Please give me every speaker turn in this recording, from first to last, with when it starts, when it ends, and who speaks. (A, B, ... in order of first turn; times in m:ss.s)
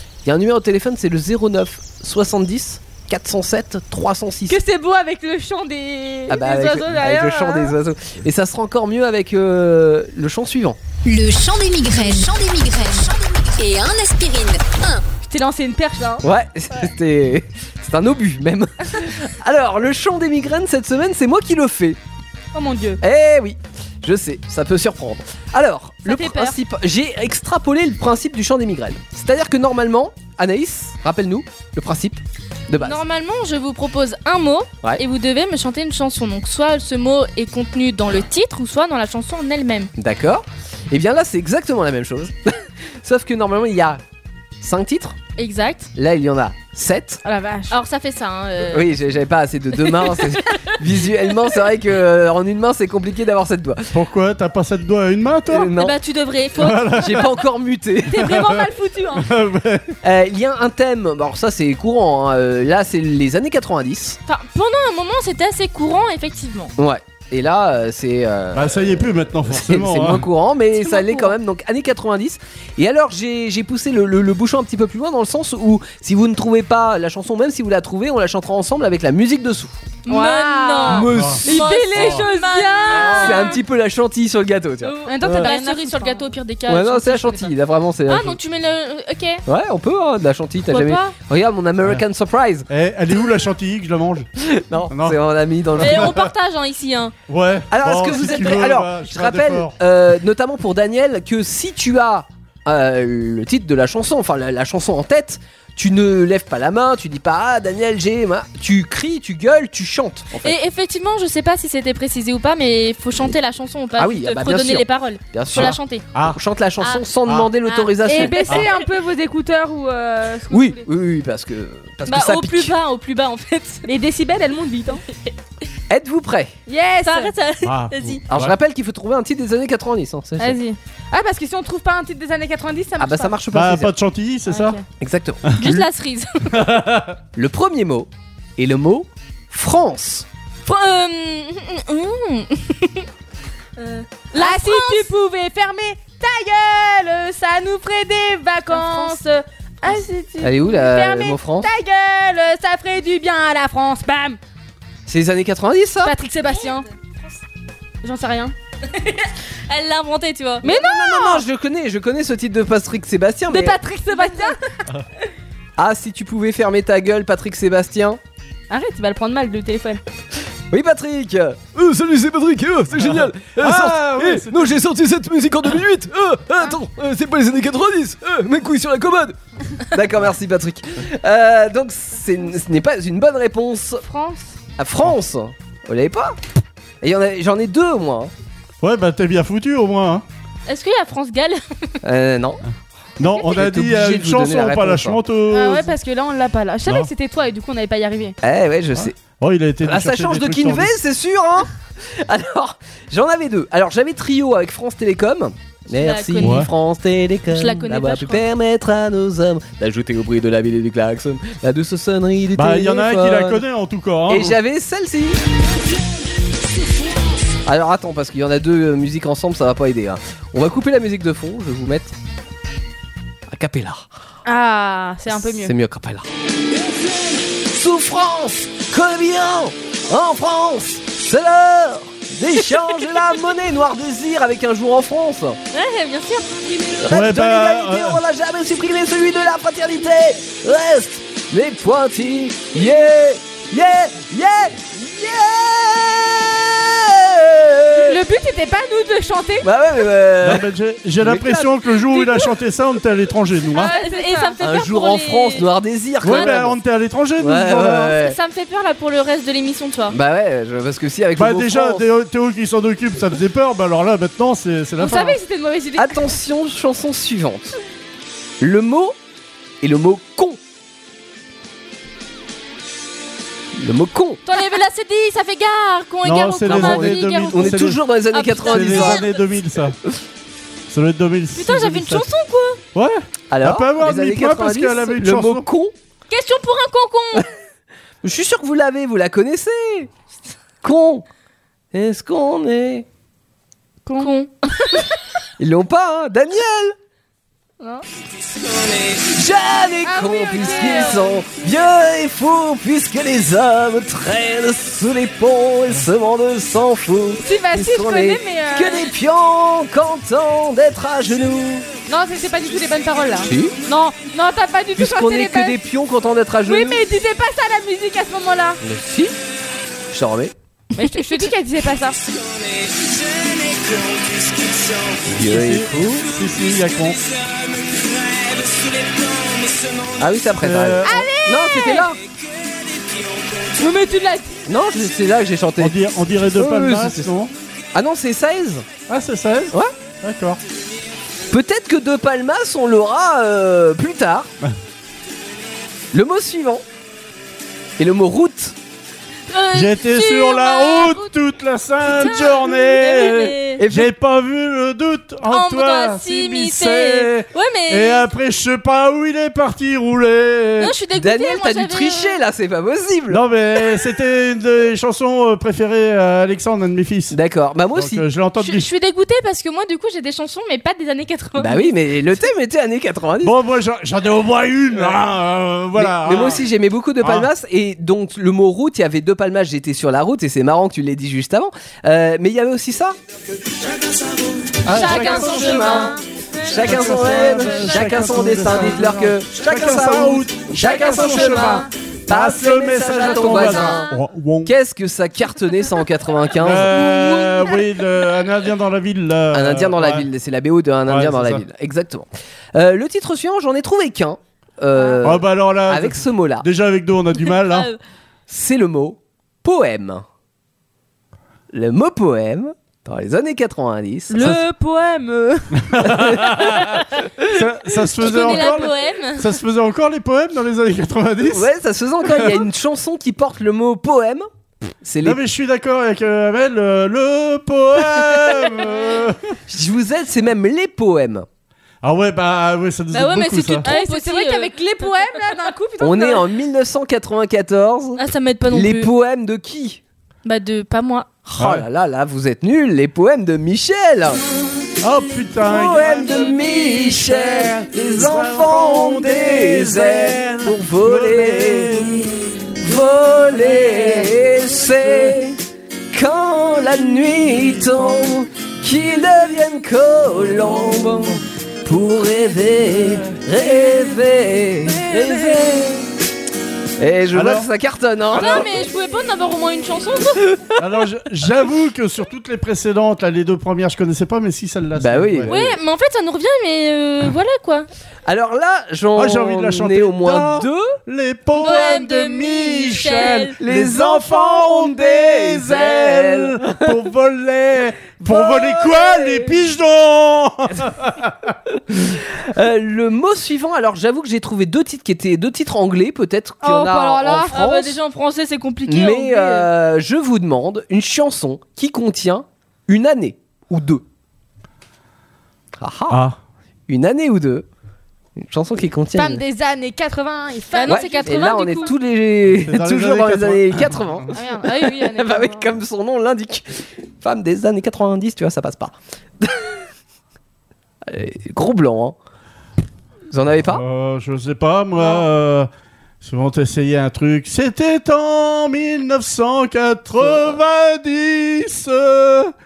0:00.2-0:04.6 A
0:04.5-0:07.8 B
0:06.3-0:10.8 A
0:11.0-0:15.0 C
0:15.2-0:16.2 B
0:16.2-0:22.0 A
0:22.5-0:23.0 B
0:23.0-0:33.0 A
0:26.0-0:26.6 B
0:32.8-0:39.9 D
0:40.0-0:44.0 A
0:44.6-0:45.2 A
0:45.4-0:45.9 D
0:46.0-0:47.2 A
0:47.2-0:47.8 B
0:47.7-0:49.0 D
0:48.7-0:53.9 A
0:49.8-0:50.7 D
0:53.9-0:55.7 E
0:55.5-0:56.0 A
0:55.7-0:57.2 D
0:56.6-0:57.3 E
0:57.0-0:58.3 A
0:58.1-0:59.3 B
0:58.2-1:00.0 E
1:00.0-1:04.2 A
1:04.3-1:06.7 D
1:06.8-1:19.8 A
1:08.5-1:10.3 E
1:10.8-1:11.4 D
1:20.0-1:23.6 D
1:20.1-1:23.6 B
1:20.8-1:21.6 A
1:21.1-1:21.4 E
1:22.0-1:22.3 E
1:22.9-1:25.5 A
1:24.8-1:27.5 D
1:25.0-1:26.2 B
1:26.7-1:28.4 A
1:28.1-1:29.4 D
1:29.5-1:32.7 A
1:30.7-1:31.2 D
1:32.7-1:34.3 E
1:34.4-1:36.2 A
1:34.9-1:35.2 E
1:35.8-1:36.3 E
1:35.8-1:37.1 D
1:37.3-1:39.8 E
1:37.7-1:50.6 A
1:50.4-1:56.0 D
1:54.0-1:58.6 A
1:55.6-1:56.4 E
1:56.8-1:58.8 D
1:58.0-2:00.8 B
2:00.5-2:02.8 A
2:02.1-2:03.8 D
2:03.8-2:05.0 B
2:05.9-2:06.5 A
2:06.7-2:07.3 B
2:07.0-2:08.2 D
2:07.6-2:08.5 E
2:08.3-2:10.6 A
2:10.4-2:13.4 B
2:13.0-2:13.9 A
2:13.5-2:14.8 E
2:14.5-2:14.8 B
2:15.0-2:15.8 A
2:15.6-2:16.5 D
2:16.5-2:17.2 E
2:17.4-2:20.3 A
2:20.7-2:23.1 D
2:23.8-2:25.1 D
2:24.3-2:34.4 B
2:28.7-2:29.2 D
2:30.4-2:31.7 A
2:35.1-2:36.2 A
2:36.0-2:36.9 B
2:36.5-2:37.3 D
2:38.0-2:38.5 B
2:38.9-2:40.7 D
2:40.6-2:41.4 B
2:40.6-2:43.8 A
2:43.5-2:44.6 B
2:44.1-2:44.5 D
2:45.8-2:48.2 A
2:48.7-2:50.0 B
2:50.7-3:04.0 A
2:53.0-2:54.8 E
3:04.0-3:04.6 B
3:04.8-3:06.4 A
3:07.0-3:08.3 A
3:08.8-3:10.2 E
3:10.7-3:11.9 D
3:12.0-3:12.6 A
3:13.2-3:15.9 E
3:13.4-3:15.2 A
3:15.5-3:18.4 B
3:18.4-3:19.2 A
3:19.0-3:21.0 E
3:19.8-3:33.6 A
3:25.9-3:26.7 D
3:26.4-3:26.7 E
3:27.5-3:28.4 D
3:32.6-3:34.6 E
3:34.3-3:35.4 A
3:37.7-3:42.2 A
3:43.5-3:44.1 A
3:44.4-3:45.8 B
3:45.3-3:46.3 A
3:47.7-3:55.6 A
3:55.7-3:56.9 D
3:57.0-4:08.2 A
3:57.1-3:58.2 E
4:08.0-4:09.7 B
4:09.6-4:10.7 A
4:10.4-4:13.9 E
4:11.2-4:11.7 A
4:13.8-4:14.6 B
4:13.8-4:15.7 D
4:14.6-4:16.8 A
4:16.2-4:18.2 E
4:16.2-4:16.6 D
4:17.4-4:18.4 A
4:18.2-4:20.2 D
4:20.1-4:22.1 A
4:21.4-4:25.4 E
4:25.0-4:26.2 B
4:26.0-4:27.8 A
4:28.6-4:29.2 A
4:29.8-4:30.6 A
4:33.8-4:34.4 A
4:34.5-4:39.4 D
4:36.2-4:38.0 E
4:36.7-4:39.2 A
4:38.6-4:40.0 E
4:40.9-4:42.3 E
4:41.6-4:42.8 D
4:43.0-4:45.7 E
4:43.5-4:45.9 A
4:46.3-4:47.5 D
4:48.2-4:50.1 A
4:50.8-4:51.2 A
4:51.9-4:53.1 A
4:54.0-4:54.3 B
4:54.2-4:54.5 D
4:55.6-4:57.0 A
4:59.0-5:11.9 A
5:00.0-5:01.4 B
5:00.6-5:01.2 D
5:07.4-5:09.1 B
5:12.1-5:15.8 B
5:13.5-5:13.8 A
5:15.0-5:17.0 A
5:16.6-5:18.8 B
5:18.8-5:19.4 A
5:20.1-5:20.5 A
5:21.0-5:22.2 B
5:21.0-5:21.4 D
5:25.3-5:26.2 A
5:25.4-5:27.2 E
5:30.2-5:32.2 A
5:30.6-5:31.3 E
5:31.0-5:32.1 B
5:33.8-5:34.6 B
5:34.7-5:37.3 A
5:35.8-5:37.5 E
5:37.9-5:38.9 A
5:39.1-5:40.6 E
5:41.5-5:44.5 A
5:46.1-5:46.8 A
5:48.0-5:48.8 A
5:49.5-5:51.3 D
5:49.7-6:00.9 E
5:52.1-5:53.8 D
5:53.8-5:54.1 A
5:55.5-5:58.3 D
6:00.8-6:02.4 D
6:01.2-6:03.4 A
6:03.3-6:07.4 E
6:07.3-6:08.2 A
6:08.0-6:08.9 E
6:08.6-6:12.0 D
6:11.6-6:13.6 A
6:13.4-6:16.6 E
6:16.0-6:23.2 A
6:17.2-6:17.5 E
6:24.8-6:26.1 E
6:24.9-6:28.8 D
6:24.9-6:34.1 A
6:26.7-6:34.7 E
6:33.5-6:33.9 D
6:34.6-6:36.9 A
6:36.6-6:40.3 E
6:37.0-6:37.7 D
6:39.5-6:46.7 A
6:41.1-6:41.6 E
6:45.2-6:47.9 E
6:47.4-6:48.0 D
6:48.5-6:50.2 A
6:51.7-6:54.6 A
6:54.3-6:55.9 B
6:55.9-6:57.0 E
6:56.0-6:57.0 A
6:57.5-7:01.7 E
6:58.2-6:59.5 D
7:01.5-7:04.5 A
7:02.2-7:02.7 E
7:05.0-7:05.4 A
7:05.2-7:09.6 E
7:09.7-7:11.5 A
7:12.0-7:13.9 E
7:13.1-7:15.5 D
7:13.8-7:16.5 B
7:16.0-7:20.0 A
7:18.2-7:19.1 D
7:20.4-7:21.3 D
7:21.5-7:24.4 A
7:21.6-7:21.9 E
7:25.0-7:32.6 E
7:25.6-7:32.1 A
7:32.8-7:35.6 A
7:36.1-7:46.1 A
7:42.9-7:43.4 E
7:47.0-7:48.7 A
7:47.3-7:47.7 E
7:48.3-7:50.5 D
7:50.8-7:55.5 E
7:55.0-7:55.8 A
7:55.5-7:57.9 D
7:58.3-8:01.0 A
7:59.2-8:11.6 E
8:01.6-8:03.6 D
8:03.6-8:07.0 A
8:08.2-8:09.6 A
8:11.9-8:18.0 A
8:16.6-8:17.6 B
8:17.5-8:19.7 D
8:18.9-8:24.0 A
8:25.8-8:26.2 A
8:26.1-8:26.4 E
8:26.9-8:27.7 A
8:28.4-8:29.4 A
8:29.1-8:31.9 B
8:30.7-8:32.0 D
8:30.8-8:39.8 A
8:32.5-8:34.2 E
8:34.3-8:35.7 B
8:41.0-8:42.2 A
8:43.3-8:43.8 A
8:43.6-8:45.7 E
8:46.2-8:52.5 E
8:50.2-8:50.6 A